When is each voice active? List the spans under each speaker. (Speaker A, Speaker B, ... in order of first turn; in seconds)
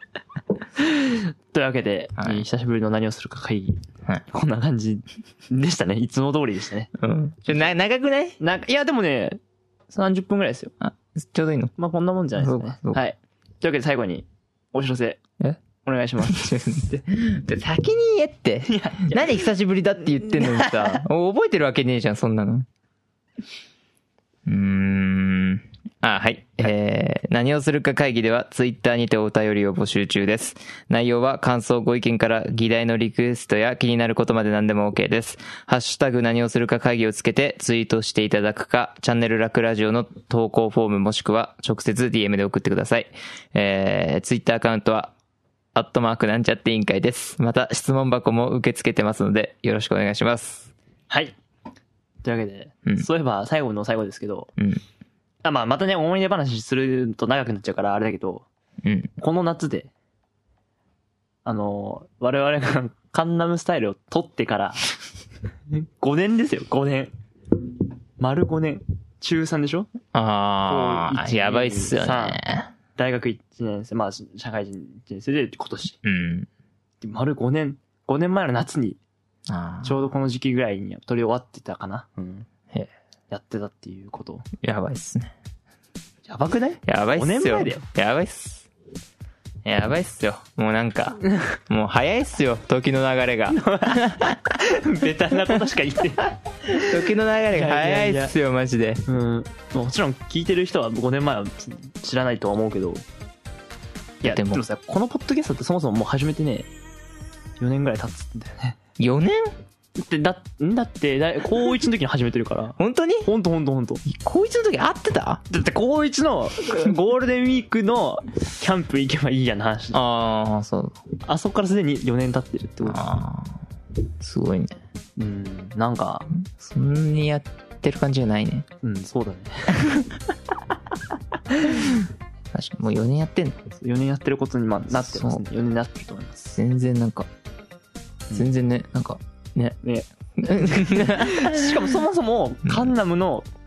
Speaker A: 0.8-6.9, 8.4-10.7, 11.8-17.0, 18.7-19.5, 20.2-21.1, 51.1-51.4, 52.2-54.5, 55.4-58.5, 59.2-59.9, 61.5-65.0, 65.7-67.1, 68.2-69.9, 70.7-72.4, 73.0-76.0, 77.0-79.0, 79.8-82.5, 83.3-84.5, 86.3-87.8, 93.5-97.0, 97.5-98.3, 99.1-103.0, 104.2-106.7, 107.6-108.8, 110.0-114.0, 115.5-120.0, 121.2-123.1, 125.2-126.3, 128.8-129.9, 133.8-136.6, 139.8-143.5
Speaker B: 2.2-2.4, 7.0-8.4, 10.8-11.7, 12.4-13.0, 16.2-22.7, 24.5-45.1, 45.7-50.7, 54.6-54.8, 58.8-59.1, 70.1-72.7, 76.0-76.5, 79.5-80.0, 84.6-85.3, 86.9-88.7, 89.7-94.4, 96.7-99.0, 104.2-104.6, 109.0-109.5, 112.8-113.3, 114.1-115.4, 119.9-121.0, 122.8-123.6, 124.2-124.8, 126.3-128.7, 129.8-130.2, 131.6-133.7, 135.0-135.4, 136.6-137.3, 138.3-139.8, 140.4-141.8